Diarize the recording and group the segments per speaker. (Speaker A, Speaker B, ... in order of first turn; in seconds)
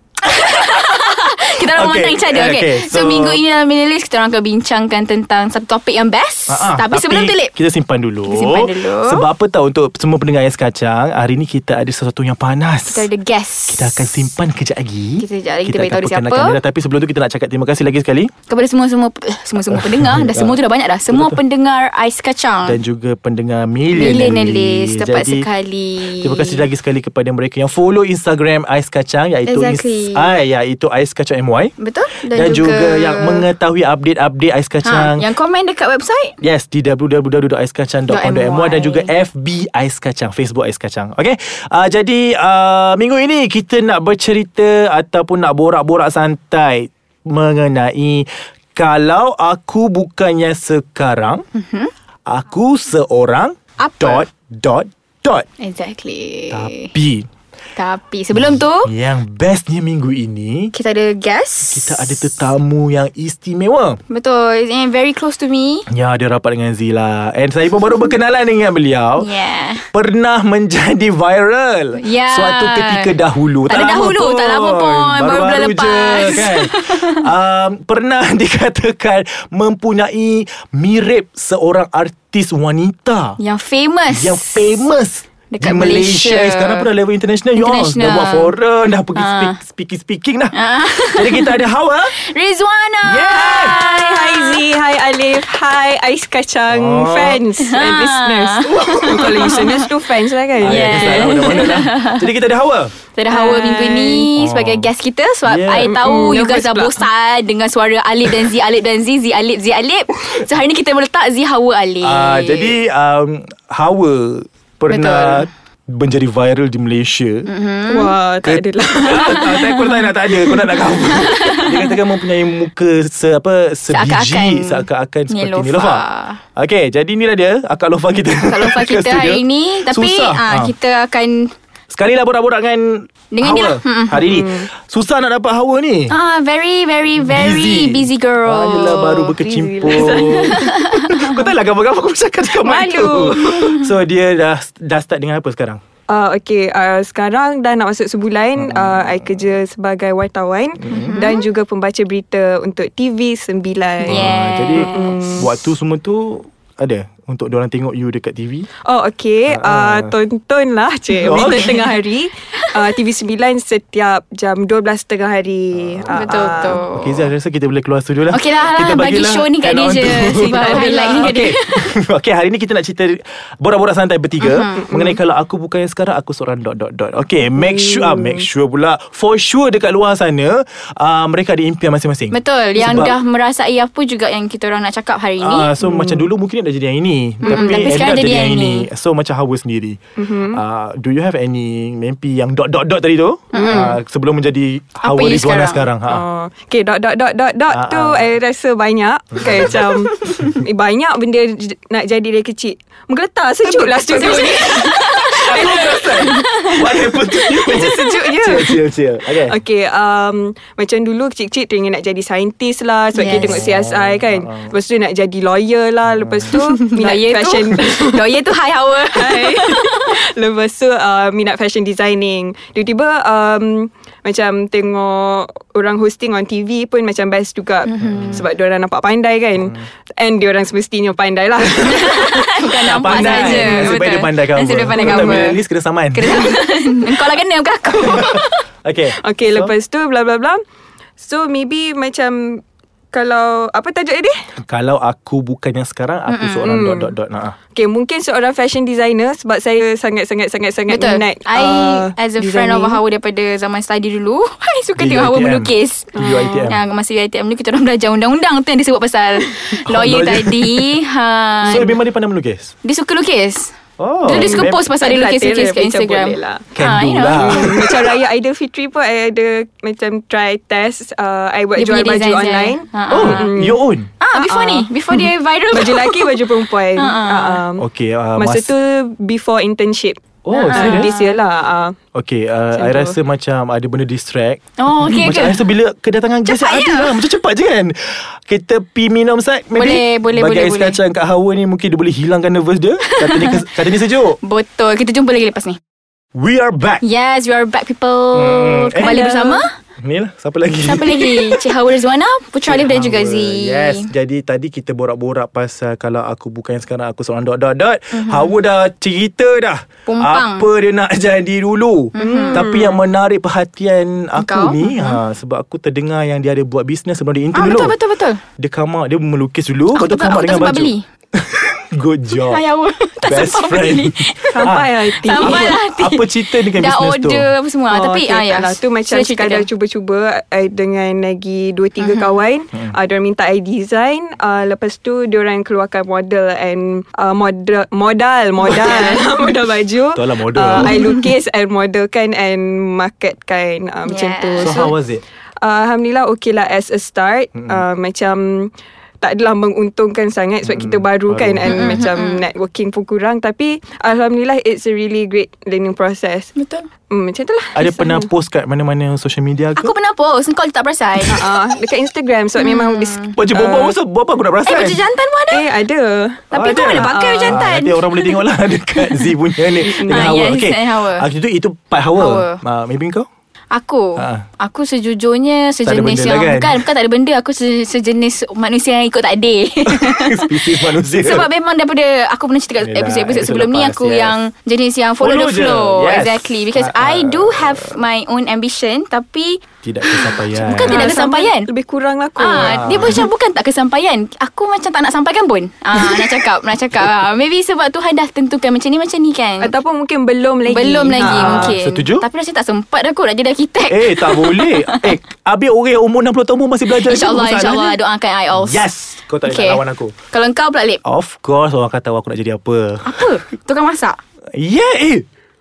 Speaker A: 0.2-7.5, 8.2-9.2, 12.9-14.2, 15.2-16.6, 18.5-22.8, 23.9-26.6, 29.4-30.3, 31.8-33.4, 34.8-36.4, 38.1-39.1, 51.5-51.9, 53.8-54.2, 55.6-56.9, 57.8-58.9, 60.7-62.3, 64.1-65.9, 69.2-69.8, 72.0-73.1, 73.7-77.2, 83.4-84.8, 85.5-86.9, 87.5-88.5, 89.2-89.5, 90.5-94.6, 97.6-99.9, 100.6-102.3, 103.1-112.8, 114.9-115.5, 117.5-118.1, 119.1-120.1, 120.6-122.0, 123.9-126.4, 128.4-131.5, 133.3-134.2, 136.1-139.3, 139.9-141.3, 143.0-143.9, 150.9-151.4, 154.0-155.3, 161.2-161.8, 166.1-167.3, 168.3-171.9, 174.4-174.9, 182.3-185.7, 187.4-188.9, 193.5-193.9, 195.0-195.8, 203.8-207.8, 213.1-213.6, 216.5-220.1, 227.8-228.4, 231.8-235.6, 236.1-238.7, 246.3-246.7, 250.9-261.9, 262.8-263.7, 264.2-267.9, 271.8-273.5, 274.2-276.3, 276.9-277.6, 280.7-281.4, 284.8-285.6, 286.4-287.2, 289.7-291.0, 293.1-293.6, 294.4-295.8, 297.0-299.7, 300.8-304.1, 308.1-308.5, 310.1-310.7, 312.1-312.7, 314.4-315.2, 317.5-318.4, 319.9-321.0, 322.4-329.7, 332.0-332.3, 340.8-341.1, 344.1-344.8, 351.6-352.4, 356.6-356.9, 359.8-361.4, 362.6-363.3, 364.6-365.6, 366.5-368.4, 368.9-369.3, 370.0-371.3, 372.1-372.6, 373.7-391.7, 392.4-399.7, 400.7-405.1, 406.9-408.8, 409.4-411.0, 413.0-414.2
Speaker B: 1.6-3.4, 6.5-13.1, 13.7-18.3, 19.7-20.6, 21.1-21.4, 22.6-25.5, 26.0-35.2, 36.4-51.4, 52.3-55.5, 56.5-57.3, 58.3-60.7, 61.6-64.0, 65.9-69.3, 69.9-83.4, 84.1-92.1, 93.0-93.8, 96.7-97.4, 98.6-99.7, 100.6-102.9, 104.3-104.9, 105.5-106.3, 112.0-117.5, 118.4-126.0, 126.5-130.7, 131.9-136.2, 137.2-145.8, 148.6-149.3, 150.8-151.2, 154.0-158.7, 159.5-160.1, 161.2-161.9, 165.8-183.2, 185.4-196.2, 197.7-198.2, 199.3-200.6, 204.1-209.6, 213.3-214.7, 216.1-216.5, 228.0-228.4, 232.8-236.6, 238.0-239.7, 244.7-247.6, 255.0-256.8, 259.8-260.9, 261.6-262.7, 264.0-264.8, 266.7-268.1, 273.1-274.1, 277.8-278.7, 280.4-281.1, 282.1-294.4, 296.3-297.0, 298.3-299.2, 300.0-301.6, 302.7-318.0, 318.6-322.6, 323.3-327.5, 340.1-341.1, 344.6-345.2, 347.5-347.8, 350.6-352.0, 357.7-359.9, 363.3-365.0, 366.5-373.2, 374.1-374.4, 375.8-376.9, 379.9-381.5, 382.8-384.4, 385.2-388.0, 389.8-391.0, 392.5-393.3, 401.2-402.2, 403.9-408.0, 408.5-410.1, 411.0-413.3, 414.5-415.2
Speaker C: 93.4-101.7, 103.3-104.3, 105.8-107.0, 117.9-119.6, 134.2-134.7, 139.4-140.6, 142.6-143.7, 146.1-154.2, 154.8-155.5, 158.8-166.8, 170.3-171.4, 174.8-175.2, 177.6-178.4, 185.8-186.3, 187.4-188.1, 190.2-190.6, 193.5-193.9, 196.1-206.5, 207.4-208.8, 209.5-218.3, 219.1-234.1, 234.9-235.5, 239.2-240.6, 241.2-244.3, 246.7-247.1, 247.7-253.0, 256.1-256.6, 264.3-266.7, 267.4-273.8, 274.3-277.8, 278.4-281.9, 282.7-283.1, 299.0-299.6, 312.2-313.0, 324.5-325.8, 327.9-344.9, 345.6-356.5, 357.1-358.3, 361.3-363.9, 365.5-367.6, 369.8-370.4, 390.7-392.9, 399.6-401.8